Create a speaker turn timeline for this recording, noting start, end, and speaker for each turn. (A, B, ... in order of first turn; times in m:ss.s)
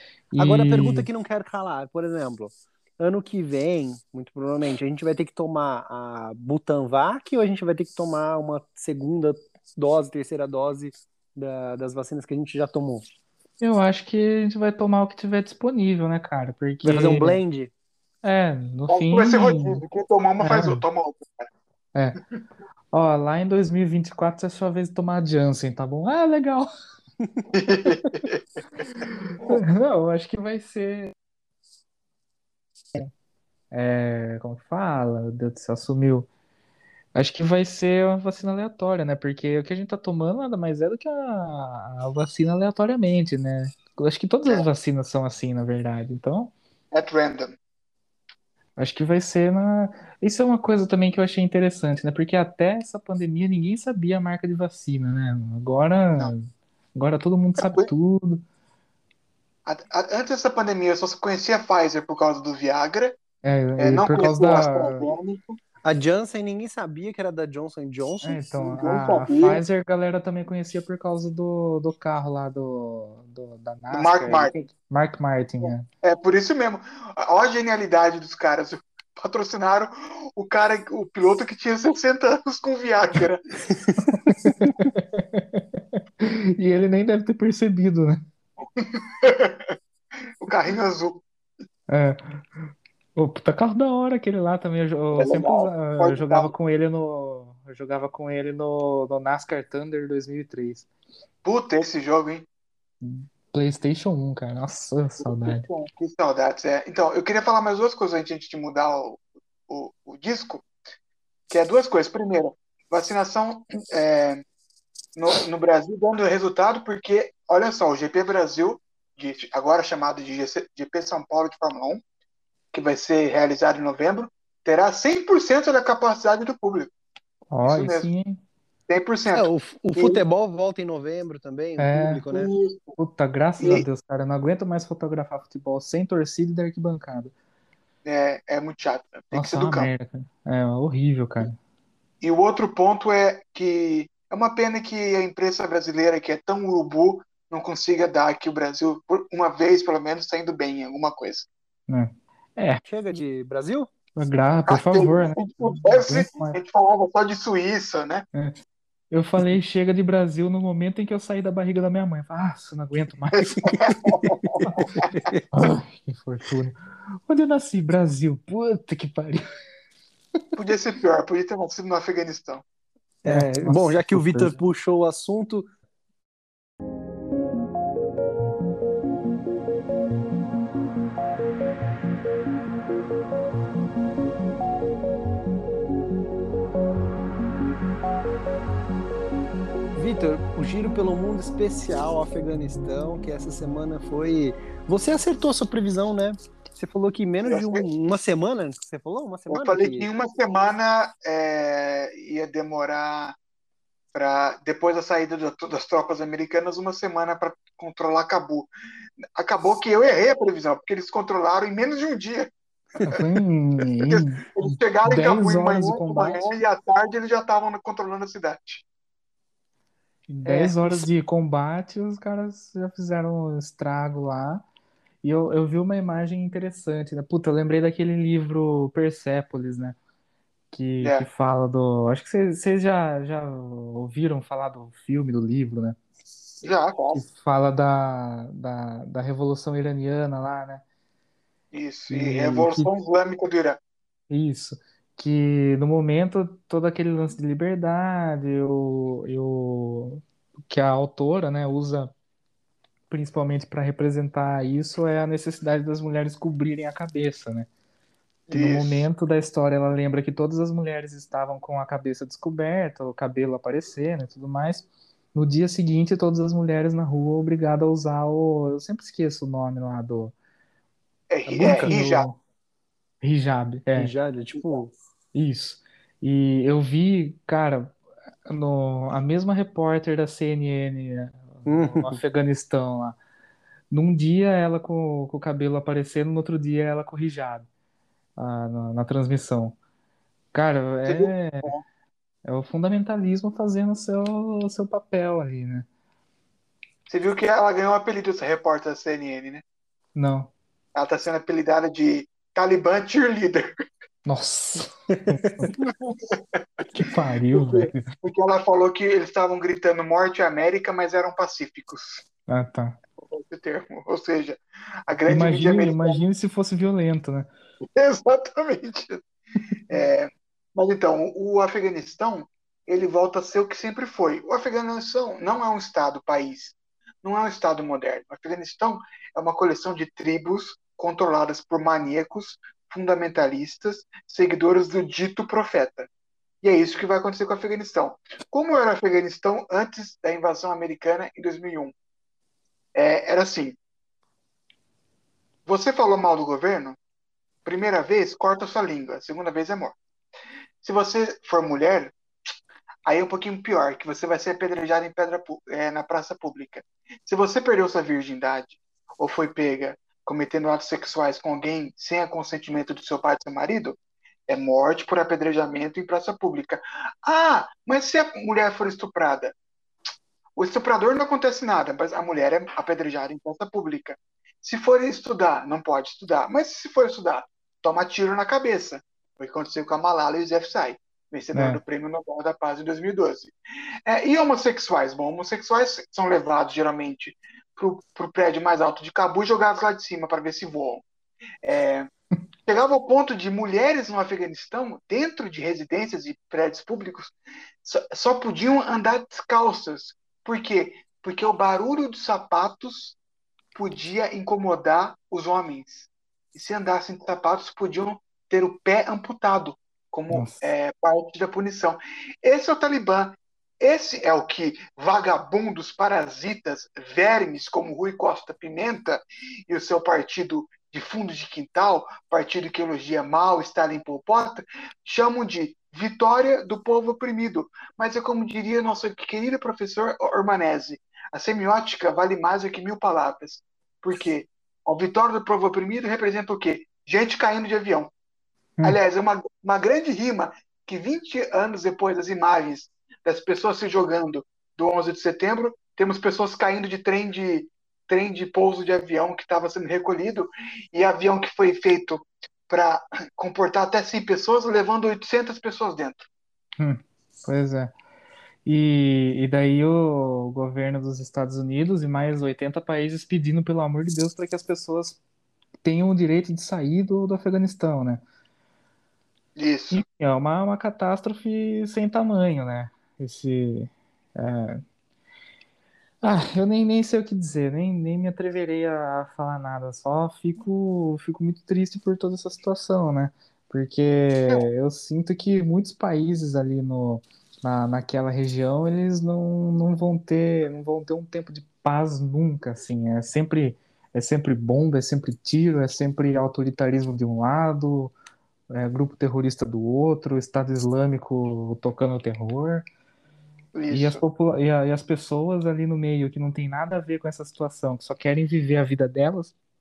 0:00.3-0:01.1 A
0:00.4-0:13.0 B
0:13.6-0:17.4 A
0:16.8-0:17.7 B
0:18.2-0:19.8 A
0:18.9-0:21.5 C
0:20.4-0:20.8 A
0:22.9-0:26.7 A
0:27.2-0:27.5 B
0:27.5-0:28.4 C
0:29.0-0:31.1 A
0:33.7-0:36.3 A
0:37.1-0:46.5 A
0:46.9-0:47.6 C
0:48.8-0:58.4 A
0:57.6-0:57.9 C
0:59.6-1:03.2 C
1:03.4-1:05.1 A
1:03.8-1:05.6 C
1:05.8-1:08.4 B
1:08.2-1:15.9 A
1:08.6-1:09.6 C
1:13.9-1:14.5 C
1:15.6-1:23.5 C
1:23.7-1:24.9 B
1:24.1-1:28.2 A
1:28.8-1:29.7 C
1:30.4-1:31.2 C
1:31.9-1:32.4 A
1:33.2-1:40.9 A
1:35.1-1:36.5 C
1:41.4-1:42.4 C
1:43.0-1:45.6 A
1:45.4-1:50.6 C
1:51.5-1:54.4 C
1:55.2-2:02.0 C
2:02.7-2:06.9 C
2:07.5-2:08.4 A
2:07.6-2:08.1 C
2:08.9-2:10.2 C
2:09.3-2:12.5 B
2:11.8-2:12.2 A
2:12.3-2:13.0 C
2:13.0-2:17.3 A
2:13.6-2:13.8 C
2:18.0-2:19.9 C
2:19.3-2:21.6 A
2:22.2-2:31.5 C
2:31.9-2:32.8 A
2:32.8-2:33.9 B
2:34.2-2:36.6 A
2:34.7-2:38.2 C
2:39.1-2:44.1 A
2:43.8-2:45.1 C
2:44.2-2:45.5 B
2:45.5-2:46.8 A
2:47.3-2:49.4 A
2:50.6-2:52.6 C
2:53.2-2:55.7 B
2:53.3-2:54.5 A
3:09.9-3:20.1 B
3:17.4-3:17.8 C
3:19.5-3:23.4 C
3:24.1-3:28.7 C
3:29.4-3:32.5 C
3:33.0-3:33.2 B
3:33.0-3:36.4 A
3:34.0-3:38.8 C
3:40.3-3:44.6 A
3:40.4-3:41.1 B
3:45.2-3:50.0 A
3:50.7-3:56.0 A
3:51.0-3:51.3 C
3:56.6-3:57.2 C
3:57.1-4:00.8 A
4:01.7-4:03.8 C
4:02.1-4:02.9 A
4:04.3-4:12.1 A
4:13.1-4:17.7 A
4:18.5-4:19.0 C
4:18.5-4:30.3 A
4:31.3-4:32.3 C
4:31.5-4:32.4 A
4:31.6-4:32.0 B
4:33.2-4:34.1 A
4:33.9-4:34.9 B
4:35.3-4:38.0 A
4:38.5-4:43.2 A
4:41.6-4:42.2 B
4:43.9-4:47.6 A
4:48.4-4:49.8 A
4:50.5-4:51.7 A
4:51.0-4:51.8 C
4:52.4-4:55.9 A
4:57.1-4:59.6 C
5:00.1-5:00.5 A
5:00.9-5:03.7 C
5:04.2-5:05.7 A
5:05.1-5:05.4 B
5:05.9-5:06.4 C
5:06.9-5:08.0 A
5:07.5-5:12.2 C
5:12.5-5:13.0 A
5:13.2-5:16.2 C
5:15.3-5:17.5 A
5:17.9-5:19.2 C
5:19.9-5:36.1 C
5:36.6-5:41.9 C
5:42.9-5:43.8 C
5:45.6-5:47.0 C
5:47.6-5:50.0 C
5:50.8-5:52.1 C
5:53.0-6:04.0 C
6:04.5-6:09.5 C
6:10.6-6:23.5 C
6:21.5-6:21.8 A
6:24.0-6:31.0 C
6:31.6-6:32.1 C
6:32.7-6:43.2 C
6:43.7-7:18.1 C
6:50.3-6:50.6 A
7:18.8-7:36.3 C
7:36.8-7:37.9 A
7:38.6-7:45.2 A
7:45.8-7:48.2 A
7:49.6-7:50.0 C
7:49.9-7:54.8 A
7:56.2-8:18.1 A
8:18.7-8:22.8 A
8:23.7-8:24.2 C
8:23.9-8:29.5 A